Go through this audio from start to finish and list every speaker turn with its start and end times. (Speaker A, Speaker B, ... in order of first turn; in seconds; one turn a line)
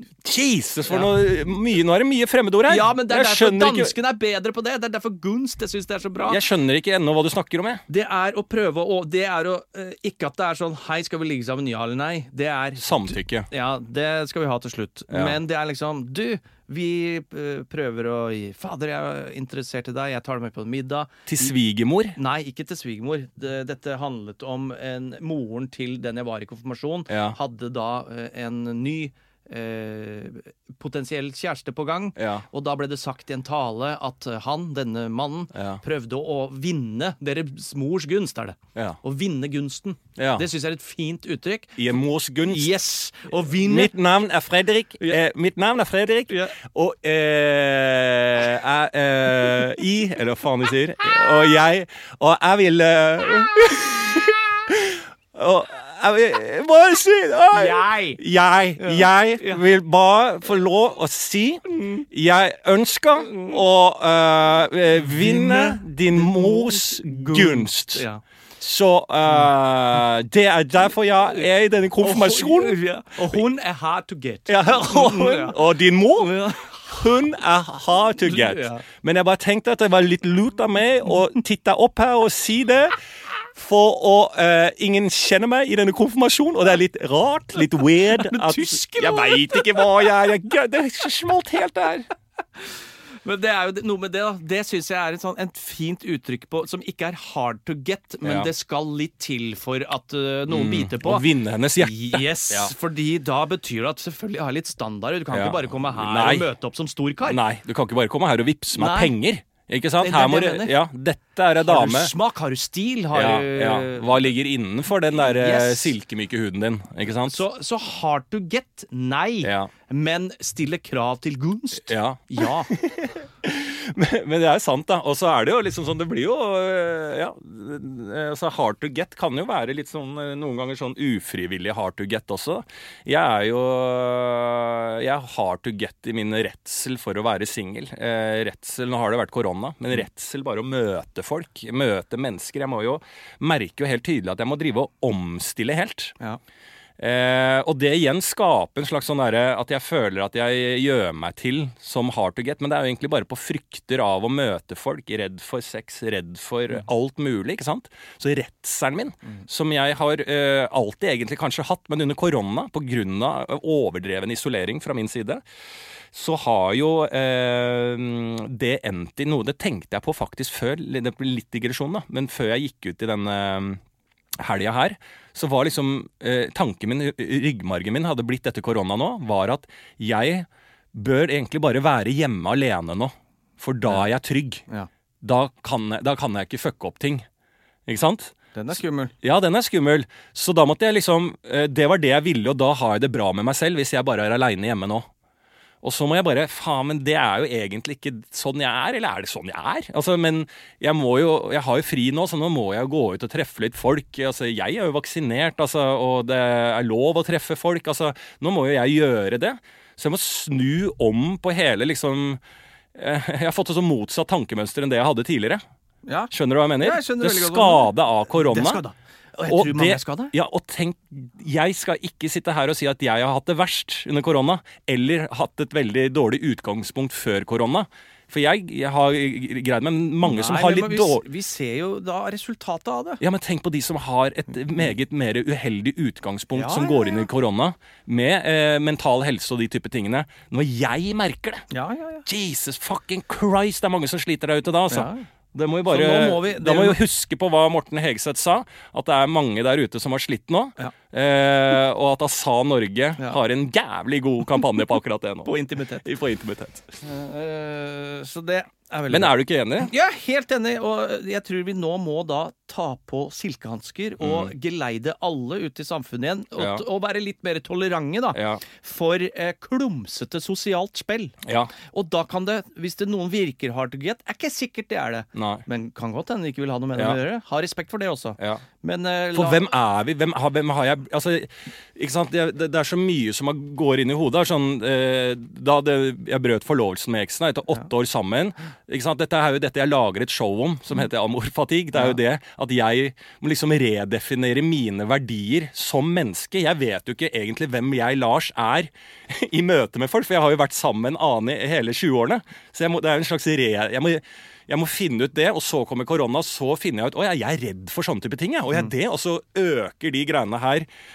Speaker A: 0.2-3.9
Speaker B: 2.7-6.4
Speaker A: 6.3-7.8
Speaker B: 7.9-21.5
Speaker A: 12.8-13.5
Speaker A: 15.1-15.4
Speaker A: 21.3-22.2
Speaker B: 22.2-41.8
Speaker A: 27.1-27.4
Speaker A: 32.2-32.5
Speaker A: 35.5-35.8
Speaker A: 40.2-40.5
Speaker A: 41.8-42.7
Speaker B: 42.5-43.9
Speaker A: 43.5-68.1
Speaker B: 46.3-46.5
Speaker B: 57.5-58.2
Speaker B: 58.8-59.6
Speaker B: 65.1-68.2
Speaker A: 68.6-73.4
Speaker B: 72.0-77.1
Speaker A: 74.5-83.0
Speaker B: 78.2-78.8
Speaker A: 83.5-92.1
Speaker B: 88.1-90.0
Speaker B: 93.2-107.4
Speaker A: 98.2-98.5
Speaker A: 100.5-102.7
Speaker A: 105.3-106.5
Speaker A: 107.3-112.1
Speaker B: 108.7-109.1
Speaker B: 110.0-110.8
Speaker B: 111.6-114.3
Speaker A: 113.1-117.4
Speaker B: 115.2-116.0
Speaker B: 117.2-122.7
Speaker A: 119.4-119.7
Speaker A: 121.9-146.2
Speaker A: 147.0-165.4
Speaker A: 166.1-173.8
Speaker A: 174.4-184.6
Speaker A: 185.2-187.3
Speaker A: 187.9-188.4
Speaker B: 188.5-189.1
Speaker A: 189.2-195.1
Speaker A: 195.8-212.4
Speaker A: 212.9-215.6
Speaker B: 216.1-220.3
Speaker A: 216.3-218.8
Speaker A: 219.5-231.2
Speaker B: 230.2-233.2
Speaker A: 233.2-241.7
Speaker B: 236.5-237.2
Speaker B: 241.7-242.2
Speaker A: 242.2-256.9
Speaker B: 244.9-245.3
Speaker B: 245.9-247.0
Speaker B: 255.4-256.1
Speaker B: 257.0-279.6
Speaker A: 259.1-259.9
Speaker A: 264.2-264.5
Speaker A: 266.6-266.9
Speaker A: 268.3-268.6
Speaker A: 271.4-271.7
Speaker A: 275.4-275.6
Speaker A: 278.4-278.6
Speaker A: 279.3-310.9